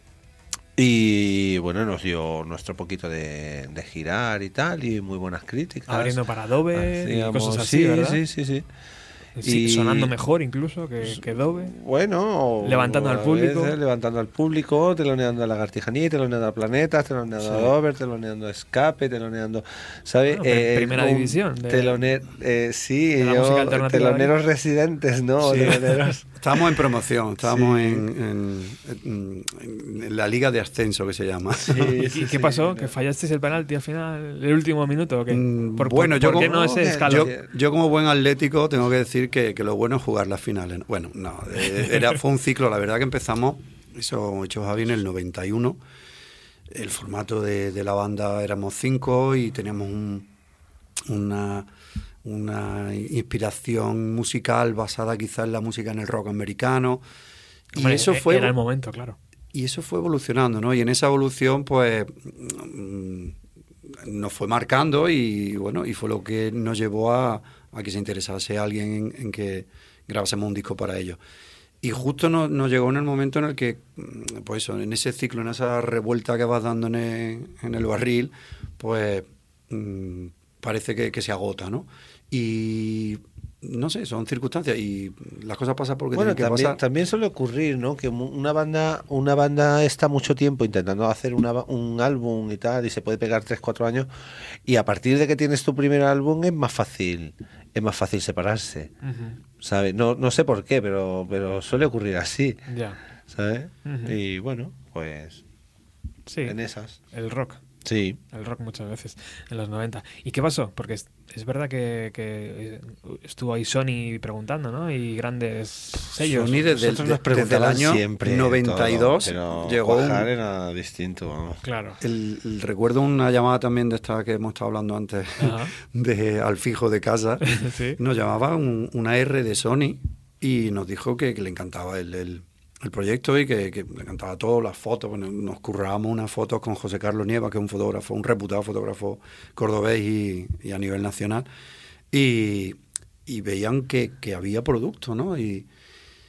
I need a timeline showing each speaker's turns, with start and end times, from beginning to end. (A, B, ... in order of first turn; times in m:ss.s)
0:00.8-0:06.2 A
0:05.9-0:08.2 B
0:06.7-0:08.6 A
0:09.4-0:11.7 B
0:09.4-0:10.1 A
0:11.0-0:26.3 A
0:12.6-0:13.8 B
0:17.4-0:17.7 C
0:20.3-0:22.0 B
0:23.2-0:24.3 B
0:25.4-0:26.1 B
0:26.4-0:31.9 C
0:27.4-0:28.0 A
0:31.6-0:32.9 A
0:31.7-0:37.3 B
0:35.3-0:45.8 C
0:36.6-0:37.4 A
0:46.7-0:50.3 C
0:51.1-0:51.7 C
0:52.2-0:57.0 C
0:57.7-0:58.6 C
0:57.8-0:59.2 B
0:59.5-1:03.4 C
1:03.9-1:11.2 C
1:11.8-1:26.8 C
1:26.1-1:34.1 A
1:34.7-1:38.9 A
1:39.0-1:39.4 B
1:39.6-1:42.6 A
1:42.7-1:43.0 B
1:43.3-1:45.4 A
1:43.8-1:44.2 B
1:46.3-1:46.6 B
1:46.4-1:47.0 A
1:47.1-1:47.6 B
1:47.8-1:48.2 A
1:48.3-1:56.6 B
1:56.2-2:00.3 C
1:56.4-2:01.6 A
2:01.6-2:02.0 B
2:02.0-2:21.5 C
2:05.4-2:05.7 B
2:07.4-2:08.0 B
2:22.1-2:25.7 C